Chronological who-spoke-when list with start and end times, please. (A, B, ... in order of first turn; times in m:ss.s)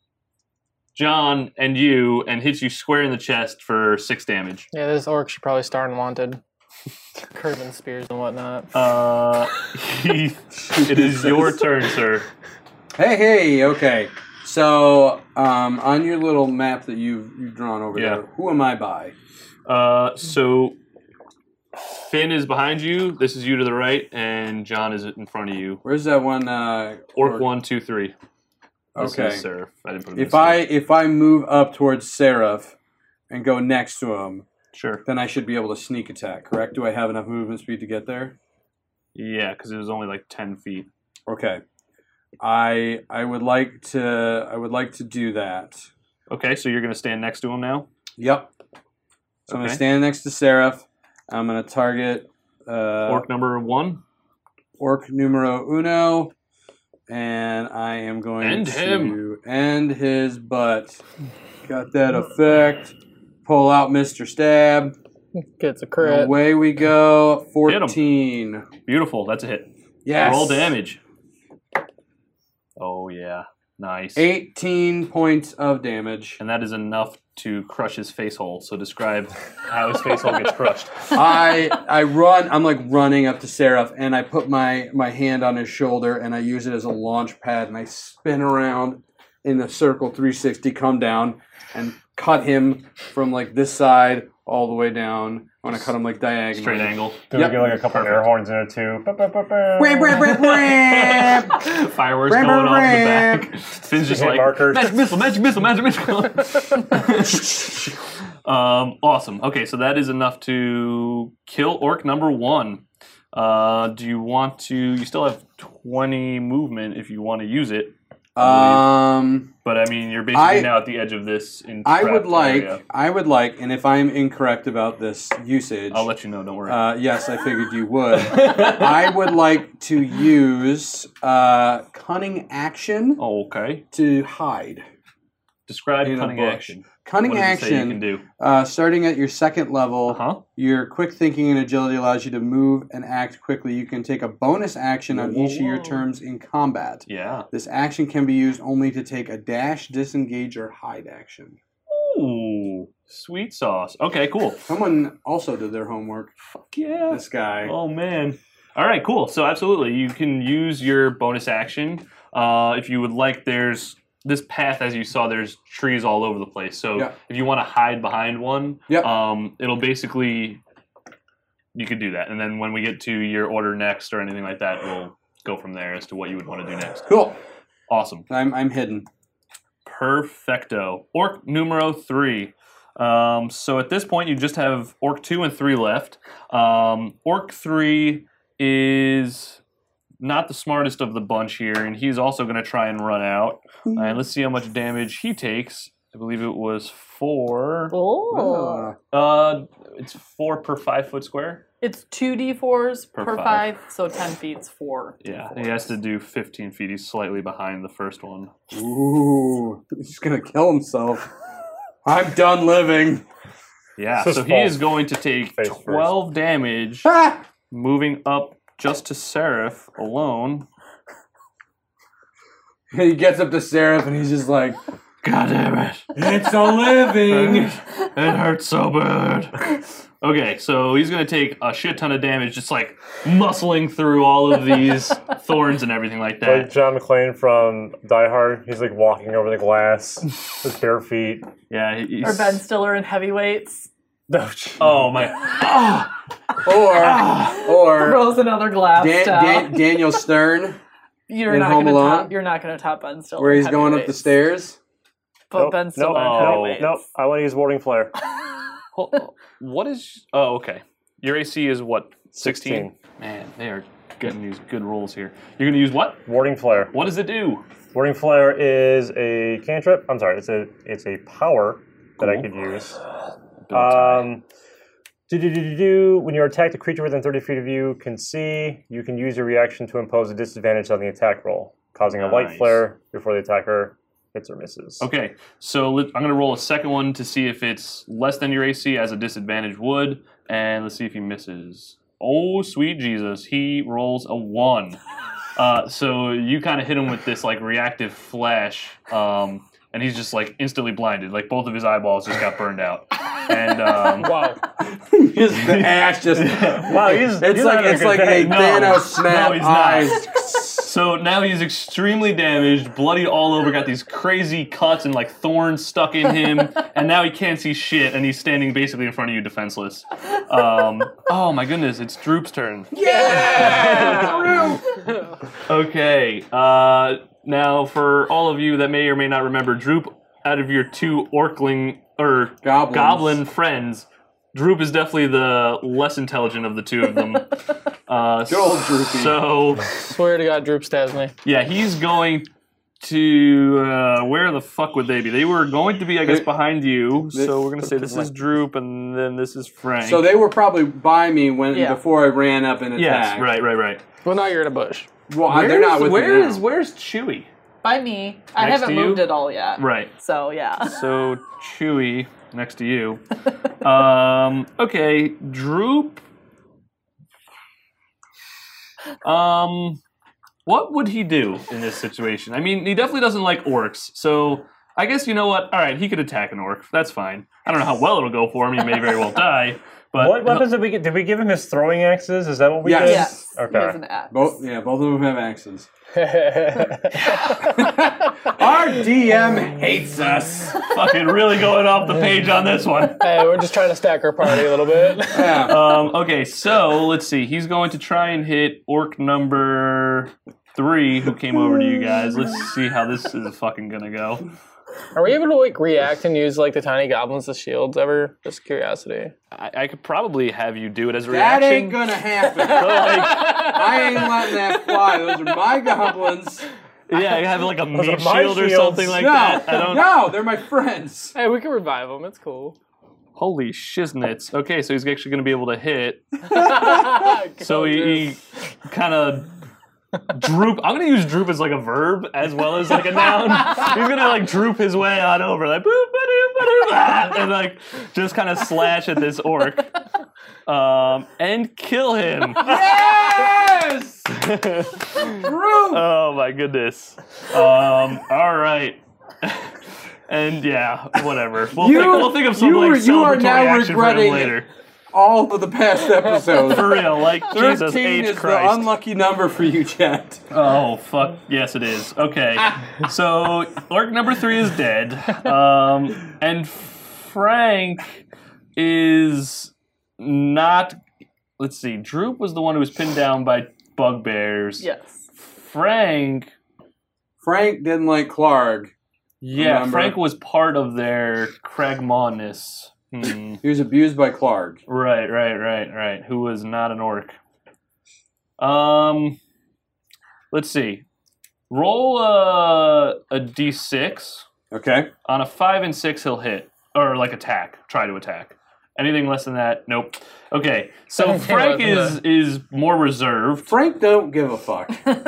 0:01.0-0:04.7 A
0:04.7-0:06.4 B
0:07.3-0:08.7 B
0:08.7-0:12.3 A
0:10.7-0:11.6 C
0:13.0-0:19.1 C
0:17.9-0:18.2 A
0:19.7-0:20.8 A
0:22.0-0:25.8 A
0:25.8-0:27.4 C
0:27.2-0:28.1 A
0:29.0-0:29.4 C
0:29.0-0:30.6 A
0:30.2-0:32.8 C
0:33.3-0:34.5 C
0:34.7-0:35.0 A
0:35.0-0:38.4 C
0:39.2-0:40.9 A
0:41.3-0:41.6 C
0:42.4-0:45.9 C
0:46.3-0:47.9 A
0:48.2-0:48.5 C
0:49.5-0:49.8 A
0:49.5-0:53.3 C
0:53.0-0:54.0 A
0:54.8-0:56.3 C
0:57.1-1:01.0 C
0:58.4-0:59.2 A
1:01.7-1:05.0 C
1:05.4-1:06.3 B
1:06.0-1:08.7 C
1:07.6-1:08.0 A
1:08.8-1:11.0 A
1:10.0-1:10.8 C
1:12.8-1:14.3 A
1:14.2-1:16.4 C
1:16.4-1:21.2 A
1:21.1-1:37.7 C
1:36.5-1:38.2 A
1:37.3-1:40.2 D
1:39.8-1:41.7 C
1:40.2-1:47.9 A
1:42.2-1:43.5 C
1:44.0-1:45.0 D
1:48.4-1:59.0 A
1:58.4-1:59.5 C
1:59.6-2:02.8 A
2:00.3-2:00.7 C
2:01.8-2:06.1 C
2:05.9-2:06.9 A
2:06.7-2:13.2 C
2:08.1-2:09.2 A
2:13.2-2:13.8 A
2:13.9-2:14.8 C
2:15.7-2:18.2 A
2:16.0-2:31.6 C
2:20.1-2:20.4 A
2:25.1-2:26.0 A
2:27.1-2:27.5 A
2:31.9-2:34.7 A
2:34.7-2:36.3 C
2:36.5-2:50.6 A
2:37.1-2:37.7 C
2:51.8-2:57.1 A
2:57.1-2:57.4 C
2:57.9-2:58.3 A
2:58.3-2:59.1 C
2:59.8-3:09.6 A
3:10.2-3:18.0 A
3:13.9-3:14.2 C
3:17.9-3:18.9 E
3:18.3-3:19.0 C
3:19.1-3:21.6 A
3:21.8-3:25.9 E
3:23.2-3:23.7 A
3:25.2-3:28.5 A
3:28.7-3:31.3 C
3:32.0-3:33.2 C
3:34.0-3:37.1 A
3:34.2-3:35.0 D
3:35.5-3:36.2 D
3:37.1-3:37.4 C
3:37.7-3:40.7 A
3:42.9-3:44.8 C
3:45.2-3:46.1 A
3:46.2-3:47.8 C
3:47.2-3:49.6 A
3:50.2-3:56.7 A
3:56.4-4:01.5 D
4:01.7-4:02.6 A
4:02.2-4:03.9 E
4:04.3-4:04.9 D
4:04.8-4:06.1 A
4:06.6-4:10.8 C
4:06.8-4:07.7 A
4:07.5-4:09.9 E
4:11.3-4:14.4 E
4:11.5-4:12.3 C
4:13.4-4:14.8 C
4:15.5-4:17.0 E
4:15.6-4:18.1 D
4:16.1-4:16.9 A
4:18.9-4:26.2 A
4:22.4-4:22.9 D
4:26.3-4:26.9 D
4:26.9-4:27.6 A
4:27.9-4:33.0 D
4:32.2-4:32.5 A
4:33.7-4:34.3 A
4:33.7-4:34.4 D
4:35.3-4:45.0 D
4:42.1-4:42.8 A
4:45.0-4:55.0 A
4:55.6-5:04.3 A
5:04.2-5:04.6 B
5:04.8-5:10.6 C
5:05.6-5:07.3 A
5:06.9-5:08.7 D
5:08.4-5:24.7 A
5:22.9-5:24.9 C
5:23.0-5:24.5 B
5:25.7-5:37.6 A
5:32.6-5:33.4 C
5:38.1-5:40.0 A
5:38.5-5:39.4 C
5:40.0-5:41.3 B
5:41.4-5:42.5 A
5:43.0-5:50.3 A
5:47.3-5:48.4 C
5:50.0-5:53.5 C
5:51.7-5:52.0 E
5:53.0-5:54.0 A
5:54.2-5:55.1 B
5:55.3-5:56.6 C
5:55.5-5:57.5 A
5:57.8-6:00.9 E
5:58.6-6:00.1 A
6:00.8-6:06.2 A
6:09.2-6:10.0 A
6:10.7-6:20.8 A
6:20.2-6:24.0 D
6:22.8-6:23.3 C
6:23.0-6:24.4 E
6:24.3-6:25.9 C
6:26.2-6:27.8 B
6:27.3-6:30.9 C
6:30.8-6:33.5 A
6:33.2-6:35.8 B
6:35.3-6:35.8 C
6:35.5-6:44.4 A
6:45.1-6:49.3 B
6:49.5-6:52.0 A
6:51.3-6:56.7 C
6:52.6-6:53.8 A
6:53.0-6:54.5 B
6:57.1-7:00.1 A
6:57.9-6:59.2 D
6:59.1-7:01.4 C
7:01.4-7:02.8 B
7:03.4-7:09.5 A
7:06.5-7:08.4 B
7:10.3-7:20.0 A
7:20.7-7:22.8 A
7:22.6-7:24.3 C
7:24.3-7:34.7 A
7:25.3-7:26.0 C
7:31.8-7:34.6 C
7:35.1-7:40.4 C
7:36.6-7:38.9 A
7:40.5-7:48.2 A
7:48.8-7:51.0 A
7:51.6-7:54.8 A
7:54.8-7:55.2 E
7:55.4-7:56.5 A
7:57.4-7:58.9 C
7:59.4-8:03.6 A
7:59.5-8:00.2 C
8:03.6-8:04.8 C
8:04.9-8:07.4 A
8:08.6-8:09.4 A
8:10.5-8:11.0 A
8:11.7-8:14.5 A
8:14.7-8:15.1 C
8:15.2-8:23.7 A
8:21.4-8:22.1 B
8:23.7-8:25.0 C